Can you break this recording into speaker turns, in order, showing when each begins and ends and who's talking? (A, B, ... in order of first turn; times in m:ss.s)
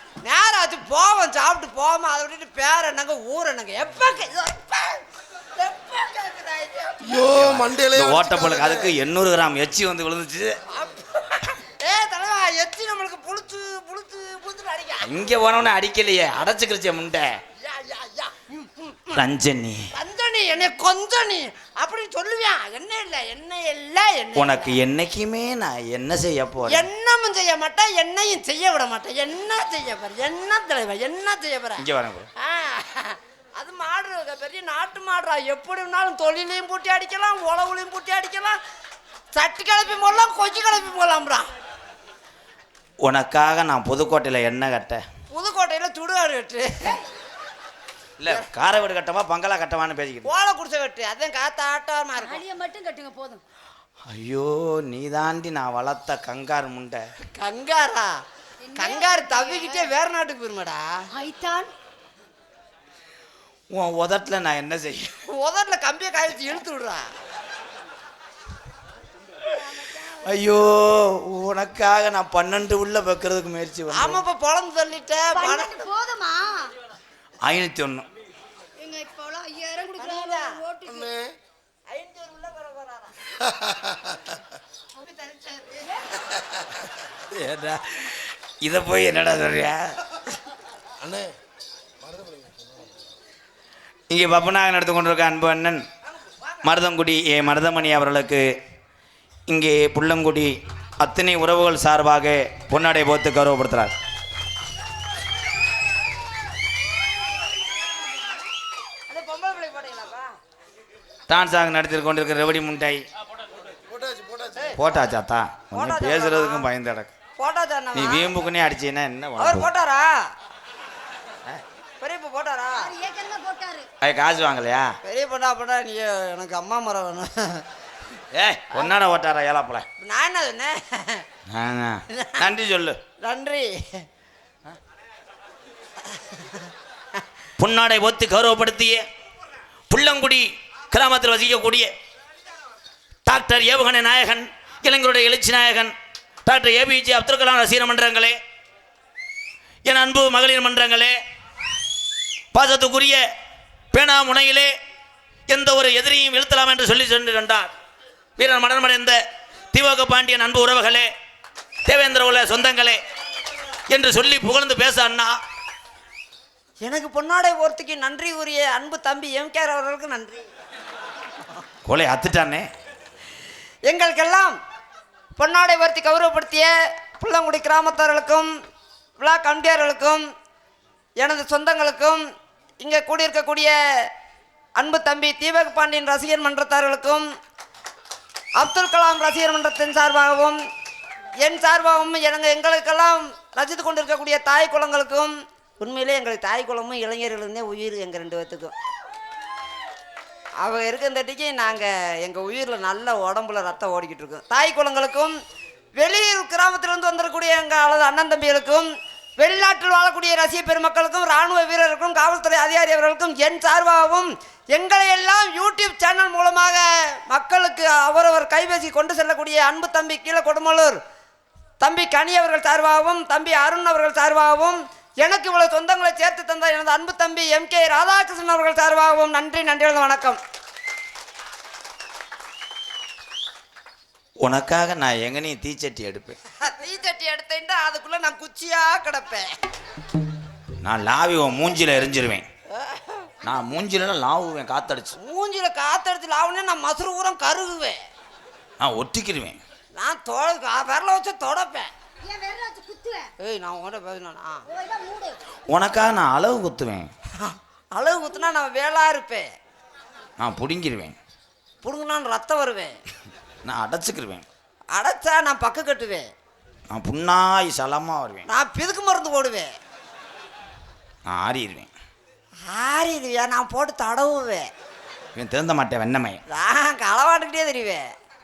0:00.2-0:05.0 A
0:05.6-0:07.3 A
0:07.0-0:08.9 B
0:07.3-0:10.6 C
0:10.7-0:15.1 A
0:15.0-0:17.3 C
0:17.6-0:19.1 A
0:19.1-0:19.9 C
0:19.9-0:24.8 A
0:24.3-0:26.9 C
0:26.7-0:31.8 A
0:31.8-0:32.3 C
0:32.4-0:38.6 A
0:39.3-0:41.5 A
0:43.0-0:45.0 C
0:45.3-0:47.0 A
0:48.2-0:50.3 C
0:50.2-0:52.4 A
0:52.2-0:53.4 D
0:54.1-0:57.0 C
0:57.3-0:58.1 A
0:58.6-0:59.9 D
0:58.8-1:00.8 A
1:01.1-1:01.7 D
1:03.7-1:05.2 C
1:05.3-1:07.1 A
1:10.2-1:14.2 C
1:13.9-1:15.8 A
1:15.3-1:16.7 D
1:17.4-1:18.1 C
1:18.8-1:21.1 D
1:20.0-1:20.5 A
1:20.8-1:21.3 B
1:21.9-1:23.2 A
1:23.5-1:24.1 B
1:25.0-1:26.0 A
1:27.3-1:29.9 C
1:31.0-1:31.3 B
1:32.0-1:32.8 B
1:34.1-1:35.8 C
1:36.6-1:38.5 C
1:39.5-1:43.9 C
1:49.1-1:50.3 A
1:51.3-1:53.0 C
1:53.9-1:54.6 B
1:54.7-1:57.1 C
1:55.7-1:56.7 A
1:57.4-1:58.3 A
1:57.9-1:59.7 C
1:59.4-2:00.1 A
2:02.0-2:02.9 A
2:02.8-2:03.9 D
2:04.0-2:04.9 C
2:05.0-2:07.6 A
2:08.3-2:09.8 C
2:10.0-2:11.2 A
2:11.5-2:13.0 C
2:12.1-2:12.4 A
2:13.2-2:13.7 A
2:17.6-2:19.0 C
2:19.9-2:21.9 C
2:23.2-2:25.9 C
2:26.4-2:28.4 C
2:29.8-2:31.2 C
2:32.5-2:33.2 C
2:33.9-2:34.7 C
2:35.5-2:37.7 C
2:38.4-2:39.2 C
2:39.7-2:41.1 C
2:41.8-2:43.0 C
2:43.9-2:45.4 C
2:46.8-2:50.4 A
2:51.8-2:52.7 C
2:53.8-2:54.6 A
2:55.4-2:58.5 A
2:59.2-3:00.2 A
3:01.2-3:02.2 A
3:02.8-3:03.7 A
3:04.8-3:07.3 A
3:08.6-3:10.6 A
3:11.4-3:18.7 A
3:20.6-3:25.3 A
3:26.0-3:28.9 A
3:29.4-3:41.0 A
3:41.8-3:50.4 A
3:54.4-3:56.4 C
3:56.6-3:59.5 A
4:00.8-4:02.4 C
4:02.8-4:03.3 A
4:03.4-4:05.2 C
4:05.2-4:08.0 A
4:08.8-4:09.6 C
4:09.9-4:11.9 A
4:12.2-4:13.3 D
4:13.4-4:14.6 A
4:14.7-4:15.4 D
4:15.7-4:17.1 C
4:17.4-4:19.5 A
4:20.4-4:21.2 C
4:21.8-4:23.0 A
4:23.6-4:24.4 C
4:24.9-4:26.3 A
4:26.9-4:28.5 C
4:28.5-4:29.7 A
4:31.3-4:31.9 C
4:32.7-4:34.7 A
4:35.3-4:36.4 C
4:36.5-4:38.0 A